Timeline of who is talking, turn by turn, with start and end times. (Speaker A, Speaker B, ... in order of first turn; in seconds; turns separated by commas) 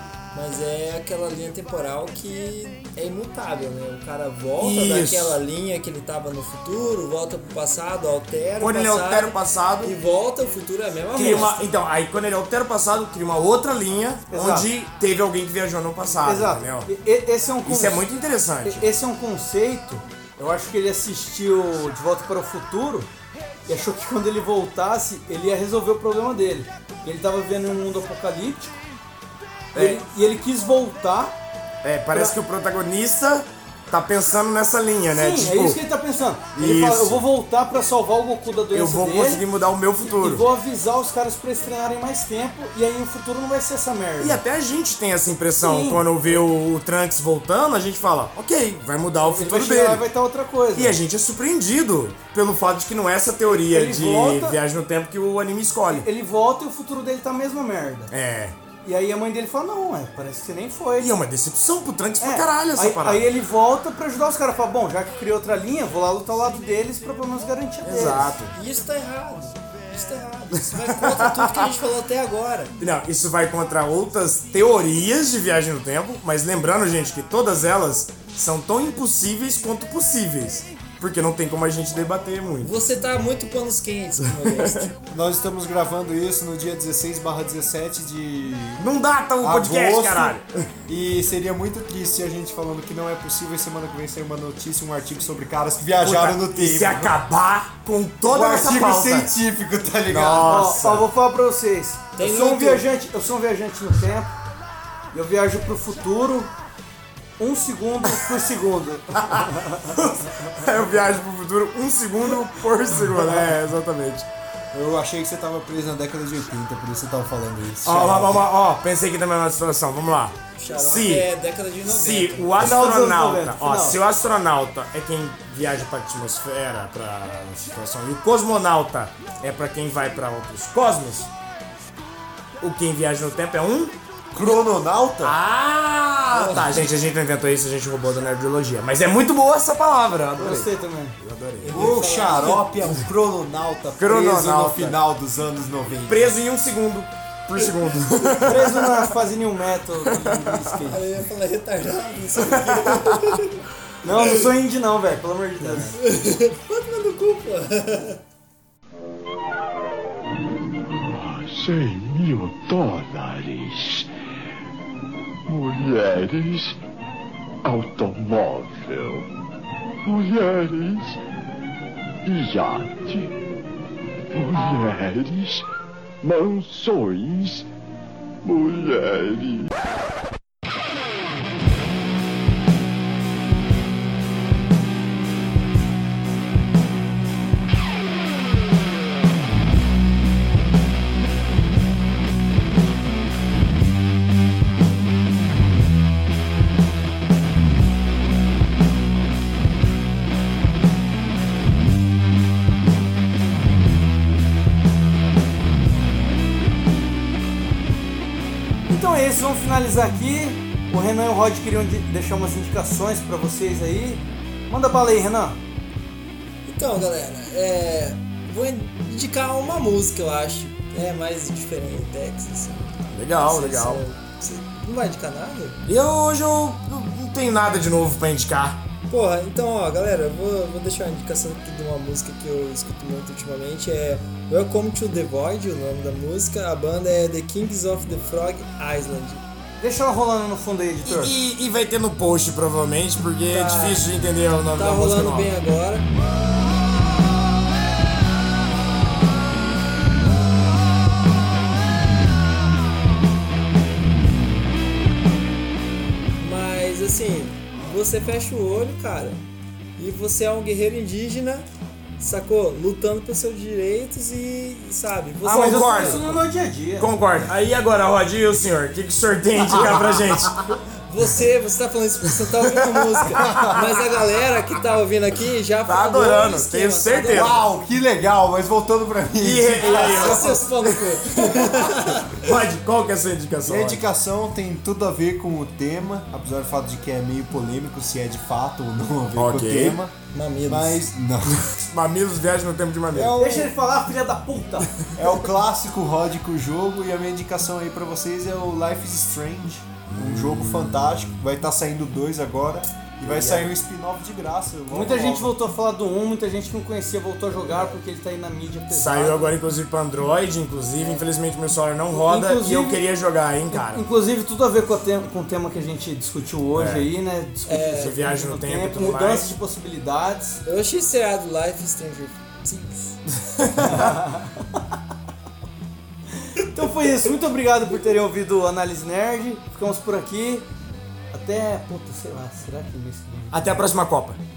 Speaker A: 0.3-11.7, Speaker B: 4.6-5.4, Speaker B: 8.6-9.9, Speaker B: 11.1-16.9, Speaker C: 11.2-11.5, Speaker C: 14.3-14.7, Speaker C: 16.2-18.0, Speaker B: 17.6-18.9, Speaker C: 18.6-23.1, Speaker C: 23.7-28.8, Speaker B: 29.7-30.0, Speaker C: 29.8-31.4, Speaker B: 31.8-35.8, Speaker C: 35.1-39.4, Speaker B: 36.5-37.2, Speaker B: 38.7-40.5, Speaker C: 40.0-44.4, Speaker B: 44.2-50.0, Speaker C: 45.6-46.4, Speaker C: 49.2-51.0, Speaker B: 50.8-56.1, Speaker C: 53.5-54.6, Speaker C: 55.9-58.1, Speaker B: 58.1-58.6, Speaker C: 58.8-61.1, Speaker B: 61.0-63.2, Speaker C: 62.2-68.3, Speaker B: 67.8-68.5, Speaker A: 68.5-72.8, Speaker B: 70.6-71.7, Speaker B: 72.8-82.7, Speaker A: 82.6-85.0, Speaker B: 84.4-84.8, Speaker D: 85.1-88.8, Speaker B: 88.8-90.5, Speaker D: 89.4-97.2, Speaker B: 96.0-99.3, Speaker D: 98.3-100.9, Speaker B: 100.1-101.1, Speaker C: 100.5-104.3, Speaker A: 102.2-102.8, Speaker C: 105.1-106.5, Speaker C: 107.4-110.0, Speaker B: 109.9-114.3, Speaker C: 113.2-113.5, Speaker D: 114.7-118.5, Speaker B: 117.8-121.3, Speaker A: 120.5-122.5, Speaker B: 121.9-131.3, Speaker C: 122.6-124.0, Speaker B: 132.6-133.9, Speaker D: 134.3-135.4, Speaker B: 135.2-142.0, Speaker A: 136.3-136.6, Speaker C: 140.4-141.2, Speaker A: 141.6-142.7, Speaker D: 141.7-146.3, Speaker B: 144.0-145.0, Speaker B: 146.1-149.1, Speaker C: 148.5-151.0, Speaker B: 150.3-150.8, Speaker A: 150.9-153.6, Speaker B: 152.7-153.3, Speaker C: 154.0-155.9, Speaker A: 155.6-158.2, Speaker E: 160.9-164.1, Speaker E: 165.5-166.8, Speaker E: 167.7-169.3, Speaker E: 170.1-171.2, Speaker E: 172.3-173.3, Speaker E: 174.3-175.7, Speaker E: 176.2-177.7, Speaker E: 178.4-179.7, Speaker C: 208.9-215.6, Speaker A: 216.7-225.8, Speaker B: 223.1-224.0, Speaker B: 225.8-228.8, Speaker A: 229.1-239.4, Speaker C: 239.8-241.3, Speaker B: 241.0-245.5, Speaker A: 243.5-244.0, Speaker A: 244.8-246.1, Speaker A: 256.4-259.4, Speaker A: 260.0-261.7, Speaker A: 262.2-266.2, Speaker C: 265.4-267.2, Speaker B: 265.5-266.5, Speaker B: 267.0-270.6, Speaker A: 271.1-277.7, Speaker B: 273.1-273.7, Speaker D: 273.4-273.7, Speaker B: 275.9-277.6, Speaker D: 277.3-280.6, Speaker B: 279.4-284.0, Speaker A: 279.9-282.4, Speaker D: 283.6-290.1, Speaker B: 289.3-290.0, Speaker A: 290.3-291.0, Speaker D: 290.7-291.6, Speaker B: 291.9-293.4, Speaker D: 293.1-293.7, Speaker C: 293.4-294.9, Speaker D: 295.2-305.6, Speaker B: 300.1-301.4, Speaker B: 303.2-303.7, Speaker C: 304.9-309.6, Speaker A: 307.6-308.0, Speaker B: 308.9-314.1, Speaker C: 312.1-313.0, Speaker C: 313.7-320.6, Speaker B: 316.8-317.1, Speaker A: 317.7-318.2, Speaker B: 317.7-319.6, Speaker A: 320.6-323.2, Speaker B: 323.4-324.2, Speaker C: 323.8-324.8, Speaker C: 326.4-330.7, Speaker C: 331.3-333.8, Speaker B: 333.5-334.4